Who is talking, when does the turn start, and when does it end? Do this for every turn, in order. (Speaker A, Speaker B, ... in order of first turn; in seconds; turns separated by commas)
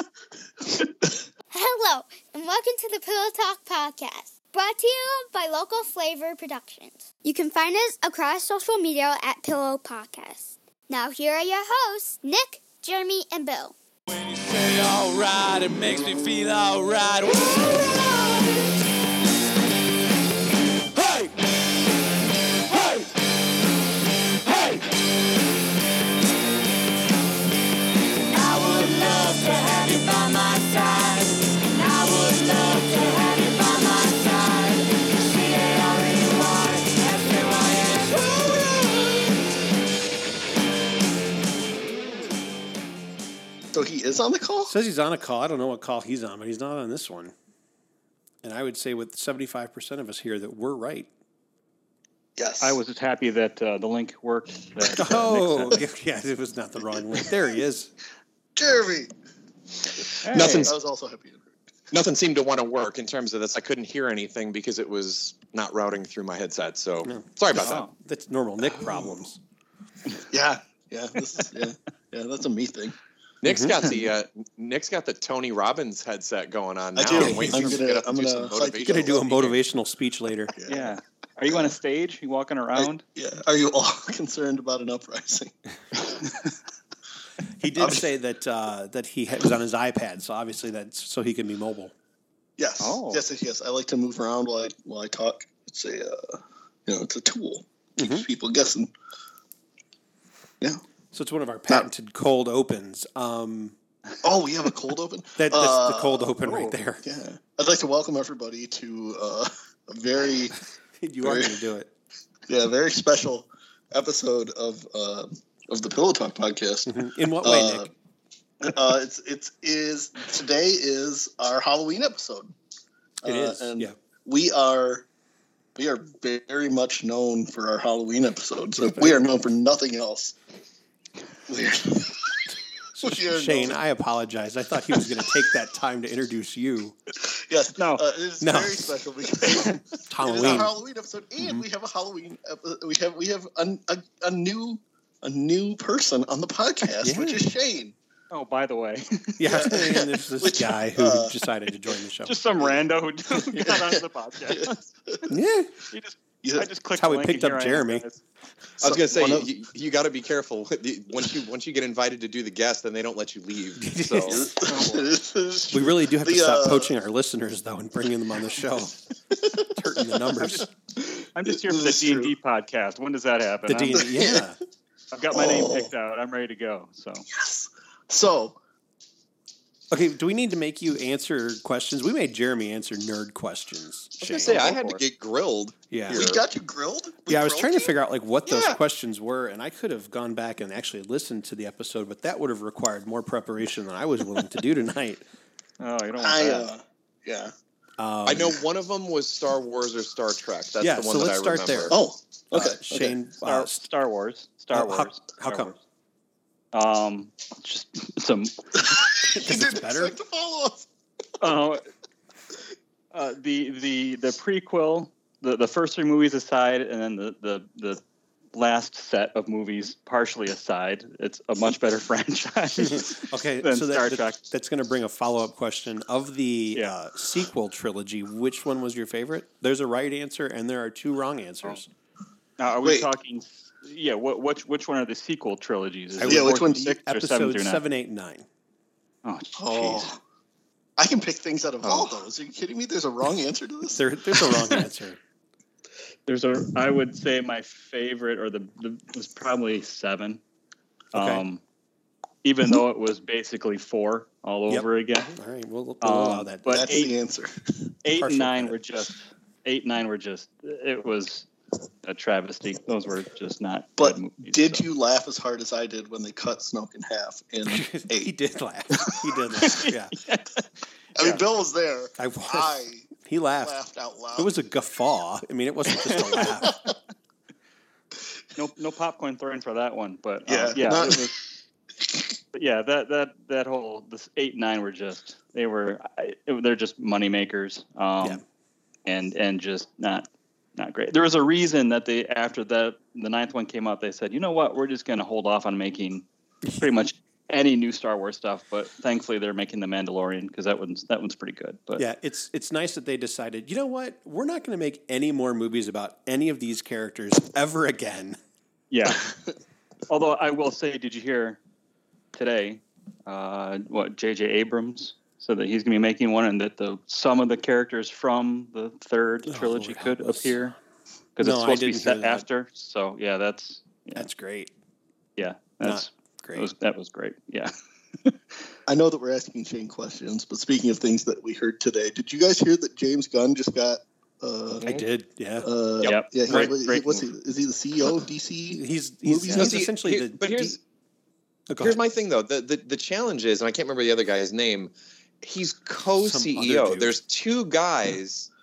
Speaker A: 0.6-1.2, Speaker B: 1.5-13.8, Speaker C: 14.1-18.6, Speaker C: 21.0-21.3, Speaker C: 22.7-23.1, Speaker C: 28.2-38.8, Speaker A: 43.7-44.7, Speaker D: 44.6-47.3, Speaker D: 48.4-51.1, Speaker A: 52.4-52.8, Speaker E: 52.6-55.8, Speaker A: 54.8-55.1, Speaker D: 55.0-57.9, Speaker A: 58.5-59.1, Speaker A: 59.9-61.4, Speaker E: 60.2-60.7, Speaker F: 60.3-60.7, Speaker F: 61.9-67.8, Speaker D: 67.0-69.4, Speaker E: 67.6-67.9, Speaker A: 68.7-69.2, Speaker A: 70.3-73.0, Speaker F: 73.4-79.6, Speaker D: 73.4-73.8, Speaker A: 77.0-79.2, Speaker D: 77.1-77.8, Speaker D: 78.8-80.5, Speaker A: 80.5-81.0, Speaker E: 80.7-83.0, Speaker A: 82.7-86.0, Speaker D: 87.6-91.9, Speaker A: 87.8-88.1, Speaker A: 92.6-98.9, Speaker E: 92.8-93.2, Speaker D: 98.0-98.3, Speaker D: 101.1-103.7, Speaker A: 104.2-106.3, Speaker D: 105.4-107.0, Speaker E: 106.4-106.7, Speaker A: 107.0-110.6, Speaker D: 111.0-111.9, Speaker A: 111.2-111.5, Speaker A: 112.5-117.9, Speaker D: 116.9-117.9, Speaker A: 118.6-122.5, Speaker D: 123.2-124.0, Speaker A: 123.2-125.0, Speaker A: 125.8-130.3, Speaker D: 128.7-129.3, Speaker A: 131.5-132.4, Speaker D: 132.9-136.9, Speaker A: 133.0-133.8, Speaker A: 137.2-147.9, Speaker E: 137.8-138.0, Speaker D: 138.4-138.9, Speaker D: 139.6-140.7, Speaker E: 140.3-140.7, Speaker D: 141.4-141.7, Speaker D: 147.0-147.4, Speaker E: 148.3-149.8, Speaker D: 149.4-152.4, Speaker A: 149.5-151.3, Speaker E: 152.2-154.8, Speaker A: 153.3-155.3, Speaker D: 155.3-155.7, Speaker E: 155.9-158.2, Speaker A: 156.4-156.7, Speaker D: 156.9-158.0, Speaker F: 158.8-164.4, Speaker A: 158.8-159.5, Speaker D: 163.8-164.5, Speaker A: 164.3-166.9, Speaker E: 164.6-165.1, Speaker D: 165.7-169.0, Speaker A: 169.3-172.3, Speaker D: 169.7-170.7, Speaker E: 170.4-170.7, Speaker E: 171.3-174.1, Speaker D: 173.7-174.6, Speaker A: 173.9-174.5, Speaker E: 175.1-177.2, Speaker A: 175.3-175.9, Speaker A: 177.3-178.6, Speaker D: 179.9-184.8, Speaker F: 184.2-186.4, Speaker E: 184.3-185.0, Speaker D: 185.9-186.2, Speaker A: 186.1-187.9, Speaker D: 187.3-195.2, Speaker F: 188.4-188.8, Speaker E: 195.8-196.7, Speaker A: 196.2-197.5, Speaker D: 198.0-198.6, Speaker F: 198.2-201.9, Speaker D: 200.8-203.8, Speaker A: 201.9-203.1, Speaker E: 203.4-205.7, Speaker D: 204.7-205.8, Speaker E: 206.7-208.6, Speaker A: 208.8-210.9, Speaker D: 209.3-210.2, Speaker E: 211.4-211.8, Speaker E: 213.1-218.0, Speaker E: 218.5-224.5, Speaker D: 222.8-231.9, Speaker E: 232.6-237.8, Speaker A: 232.8-233.1, Speaker D: 236.2-238.4, Speaker A: 236.2-237.0, Speaker E: 239.2-240.1, Speaker A: 239.6-240.2, Speaker A: 241.0-244.0, Speaker E: 241.8-242.2, Speaker D: 243.9-245.2, Speaker E: 246.3-250.4, Speaker E: 251.1-251.6, Speaker D: 251.1-251.4, Speaker E: 252.4-255.3, Speaker D: 254.7-256.9, Speaker E: 256.0-257.1, Speaker A: 256.7-257.5, Speaker E: 258.0-261.5, Speaker D: 258.1-258.8, Speaker E: 262.0-264.8, Speaker A: 264.0-268.3, Speaker D: 267.6-270.1, Speaker E: 268.9-270.6, Speaker A: 271.1-273.1, Speaker E: 271.2-271.4, Speaker D: 272.2-272.7, Speaker D: 273.2-273.7, Speaker A: 273.6-274.5, Speaker D: 274.4-276.8, Speaker E: 276.0-276.5, Speaker A: 276.3-276.9, Speaker E: 278.6-281.4, Speaker A: 280.5-281.4, Speaker E: 282.5-288.4, Speaker E: 289.1-296.2, Speaker E: 296.8-302.0, Speaker D: 302.0-308.4, Speaker E: 308.9-309.3, Speaker E: 310.1-311.6, Speaker E: 312.3-320.7, Speaker D: 319.5-320.7, Speaker E: 321.4-324.3, Speaker D: 321.4-322.4, Speaker D: 324.1-324.7, Speaker E: 325.4-327.7, Speaker D: 325.8-326.7, Speaker A: 328.9-334.8, Speaker D: 334.8-335.7, Speaker A: 335.6-339.7, Speaker E: 336.0-337.3, Speaker D: 338.8-340.8, Speaker F: 339.6-340.8, Speaker D: 341.7-342.0, Speaker F: 341.8-348.5, Speaker D: 346.1-347.2